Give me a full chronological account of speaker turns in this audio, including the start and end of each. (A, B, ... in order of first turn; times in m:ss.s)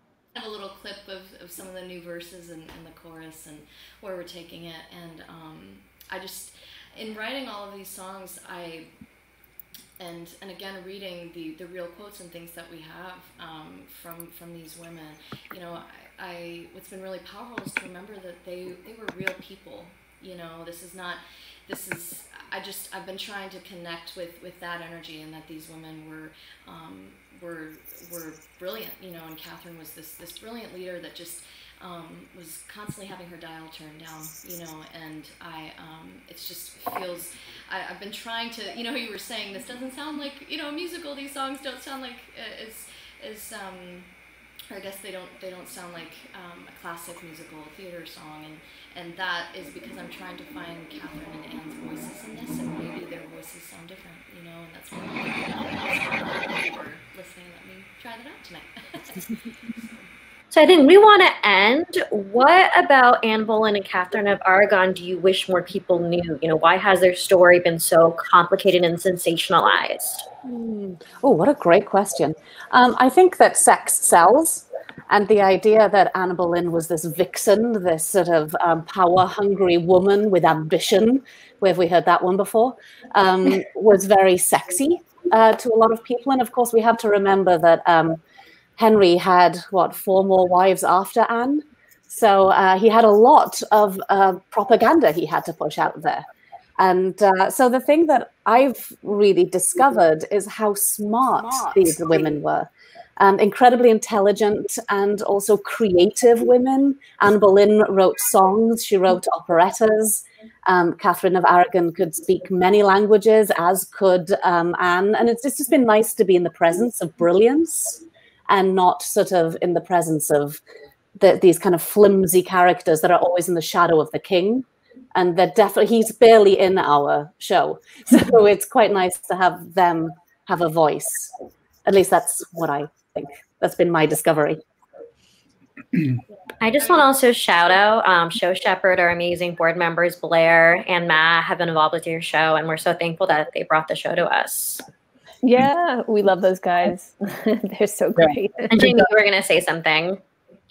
0:00.4-0:08.9 A
0:10.0-0:44.1 A
0:44.7-0:59.2 A
1:00.5-1:10.3 B
1:10.4-1:28.2 C
1:28.8-1:36.3 C
1:36.8-1:42.7 C
1:43.2-2:00.6 C
2:01.2-2:11.3 C
2:11.9-2:14.6 C
2:16.6-2:24.8 B
2:16.8-2:17.1 A
2:25.4-2:29.1 D
2:28.7-2:30.2 B